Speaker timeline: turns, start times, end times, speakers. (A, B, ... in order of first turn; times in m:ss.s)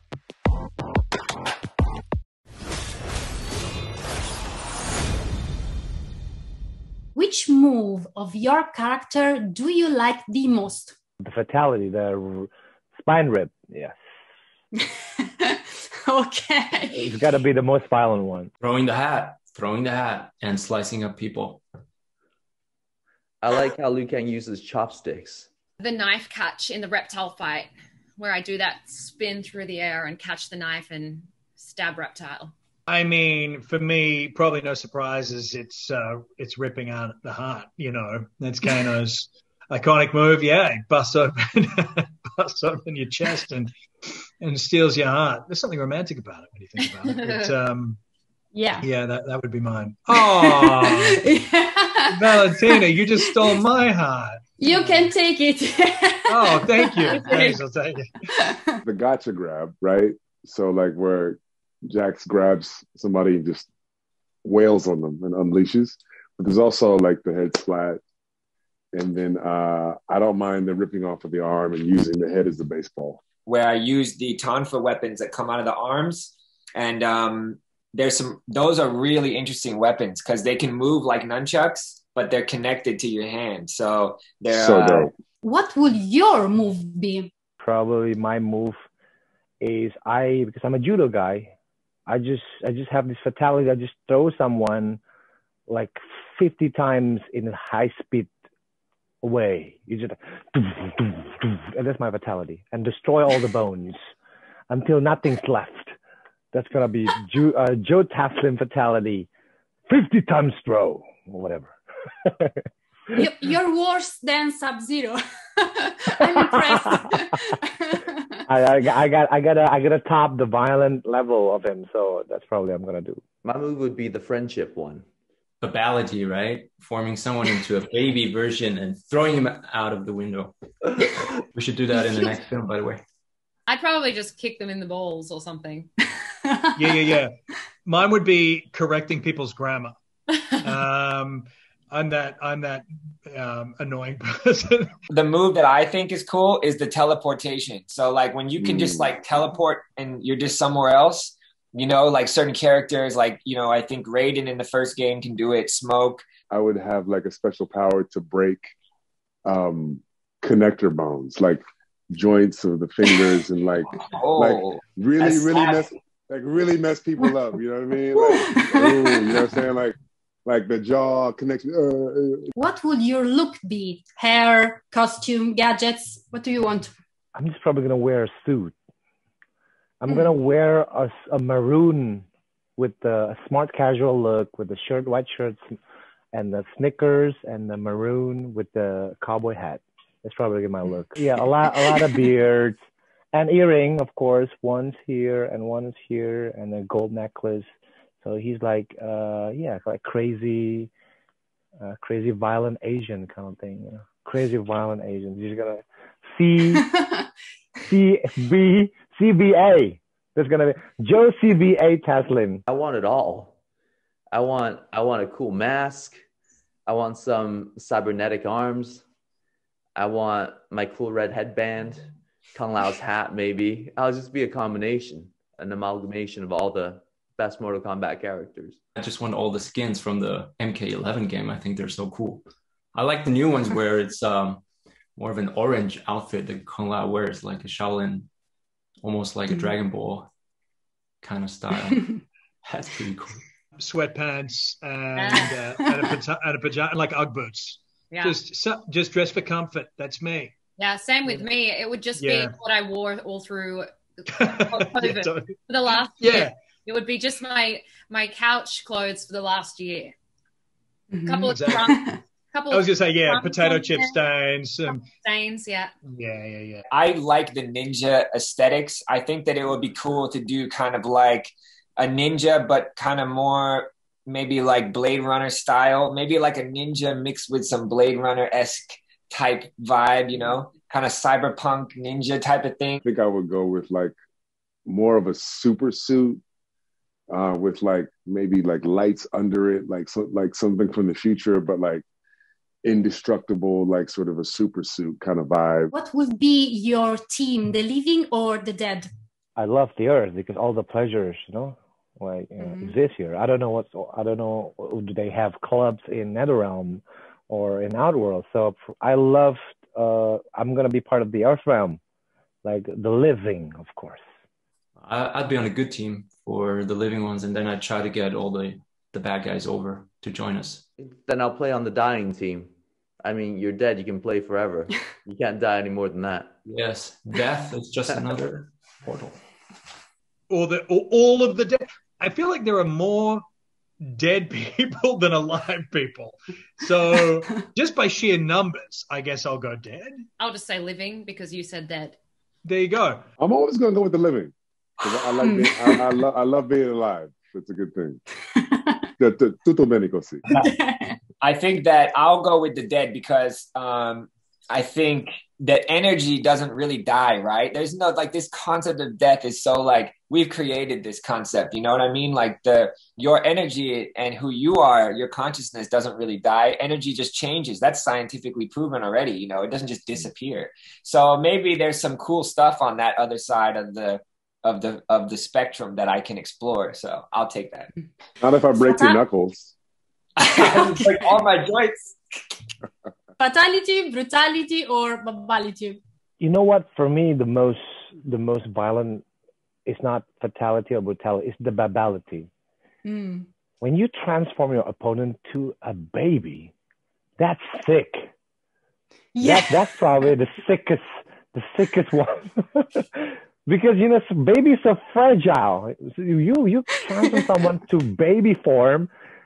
0:07.1-0:10.9 A
0:11.2-0:14.0 B
0:14.8-0:17.1 A
0:16.9-0:18.5 B
0:18.6-0:21.6 C
0:23.4-0:25.5 D
0:25.8-0:32.5 E
0:32.9-0:43.7 F
0:44.4-0:48.0 F
0:46.8-0:47.5 E
0:48.5-0:48.9 A
0:48.8-0:51.1 F
0:50.1-0:53.6 A
0:52.2-0:55.0 F
0:54.6-0:57.6 A
0:56.3-0:58.1 F
0:57.1-0:57.6 E
0:58.4-0:58.8 A
0:58.8-1:03.7 G
1:04.4-1:08.0 G
1:08.9-1:13.2 G
1:13.4-1:25.1 H
1:24.5-1:25.1 G
1:25.4-1:27.3 A
1:27.6-1:28.8 B
1:29.6-1:31.5 B
1:32.1-1:35.0 B
1:35.7-1:38.3 B
1:39.2-1:44.0 B
1:44.7-1:45.9 B
1:46.5-1:49.3 B
1:49.9-1:51.7 B
1:52.2-1:52.6 B
1:53.2-1:58.3 A
1:56.3-1:56.9 B
1:58.5-2:03.2 B
2:03.4-2:05.0 D
2:05.6-2:13.0 C
2:12.0-2:12.3 A
2:13.7-2:15.9 E
2:16.5-2:17.0 A
2:16.8-2:20.0 F
2:20.6-2:25.0 F
2:25.1-2:36.2 H
2:28.6-2:29.1 G
2:36.5-2:38.7 G
2:39.4-2:49.9 G
2:44.1-2:45.8 H
2:48.3-2:48.9 A
2:50.4-2:52.5 G
2:52.6-2:56.9 A
2:57.3-2:58.7 B
3:00.0-3:02.2 B
3:02.8-3:05.8 B
3:06.3-3:12.8 B
3:13.3-3:17.7 B
3:18.2-3:20.9 B
3:21.8-3:26.9 B
3:27.8-3:32.6 B
3:32.7-3:33.5 D
3:34.3-3:36.2 D
3:36.8-3:39.0 D
3:40.0-3:48.8 D
3:49.0-3:54.6 C
3:55.2-3:58.3 C
3:59.0-4:00.3 C
4:01.2-4:03.4 C
4:03.8-4:10.5 F
4:05.2-4:05.6 E
4:08.1-4:08.4 E
4:10.8-4:20.1 E
4:12.2-4:12.5 F
4:14.3-4:15.5 F
4:16.2-4:16.5 F
4:21.1-4:22.1 A
4:21.2-4:24.2 E
4:22.7-4:25.0 F
4:24.9-4:25.9 E
4:26.0-4:26.8 F
4:26.9-4:43.0 H
4:43.0-4:44.1 G
4:44.8-4:46.4 G
4:47.3-4:52.0 G
4:52.8-4:55.9 G
4:55.9-4:59.1 A
4:59.6-5:12.0 B
5:02.6-5:02.9 A
5:12.6-5:14.2 B
5:15.0-5:20.8 C
5:21.0-5:26.5 D
5:26.6-5:29.4 C
5:30.5-5:33.4 F
5:34.0-5:40.3 F
5:40.4-5:42.2 E
5:42.6-5:43.2 F
5:43.4-5:48.2 G
5:45.4-5:46.0 A
5:48.6-5:49.0 A
5:49.2-5:50.4 G
5:50.5-5:51.2 A
5:51.4-6:17.9 H
6:18.4-6:19.7 G
6:18.8-6:19.2 A
6:20.4-6:22.2 H
6:23.4-6:26.0 A
6:26.4-6:29.2 B
6:29.8-6:32.5 B
6:33.0-6:33.4 A
6:33.8-6:36.7 B
6:37.4-6:38.2 B
6:39.3-6:40.0 A
6:39.4-6:49.1 B